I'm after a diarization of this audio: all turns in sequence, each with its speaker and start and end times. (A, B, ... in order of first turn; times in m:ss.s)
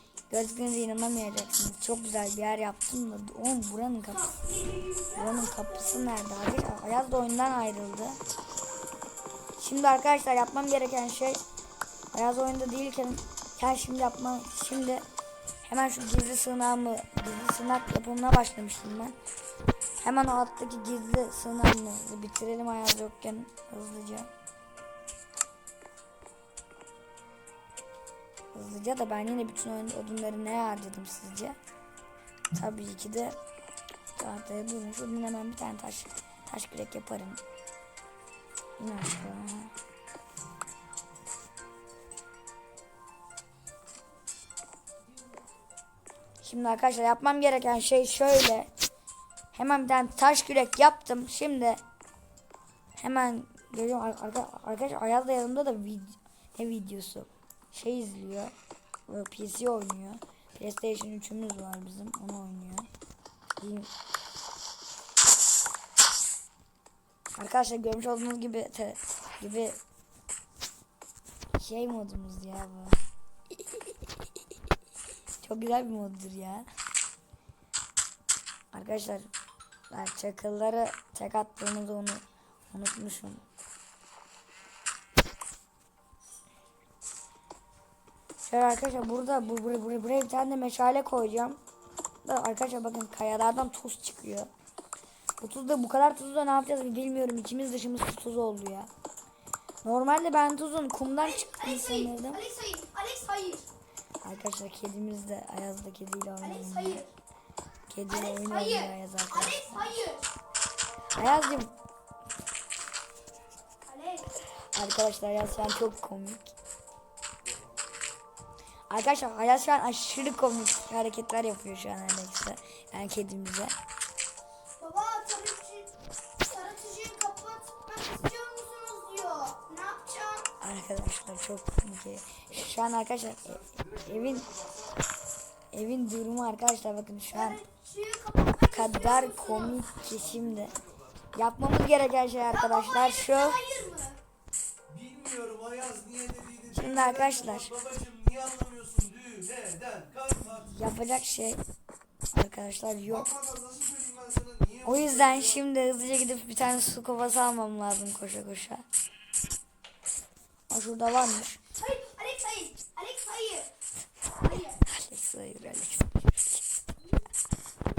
0:00.3-0:04.4 A
0:04.4-0:05.6 B
0:05.1-0:08.2 A
0:09.6-0:11.4 A
0:12.1-0:15.0 A
0:15.6-0:19.2 A
0:20.0-0:24.3 A
0:28.5-0:31.6 A
0:32.5-0:33.4 A
0:34.2-0:37.4 A
0:38.8-0:39.7 A
0:46.4-0:48.7 A
0:49.5-0:51.8 A
0:53.0-0:58.5 A
0:59.1-1:02.9 A
1:03.6-1:03.9 A
1:07.4-1:09.8 A
1:11.6-1:13.0 A
1:15.4-1:16.7 A
1:18.7-1:19.3 A
1:19.9-1:23.4 A
1:28.4-1:31.6 A
1:32.2-1:34.5 A
1:35.4-1:38.9 A
1:39.8-1:42.4 A
1:41.2-1:43.7 B
1:44.2-1:47.0 A
1:46.4-1:47.1 B
1:47.9-1:50.0 A
1:48.1-1:50.3 B
1:51.2-1:51.8 A
1:53.8-1:54.3 B
1:54.7-1:56.6 A
1:58.9-2:03.7 A
2:04.8-2:10.5 B
2:10.6-2:14.7 A
2:15.7-2:17.6 A
2:17.3-2:19.8 B
2:18.7-2:20.8 A
2:21.4-2:23.6 A
2:22.5-2:24.2 B
2:24.9-2:30.4 C
2:26.6-2:27.7 A
2:30.5-2:31.6 A
2:32.3-2:33.4 A
2:33.4-2:34.8 C
2:34.8-2:38.8 A
2:40.7-2:41.6 A
2:41.8-2:43.7 B
2:44.4-2:44.8 B
2:44.8-2:46.6 A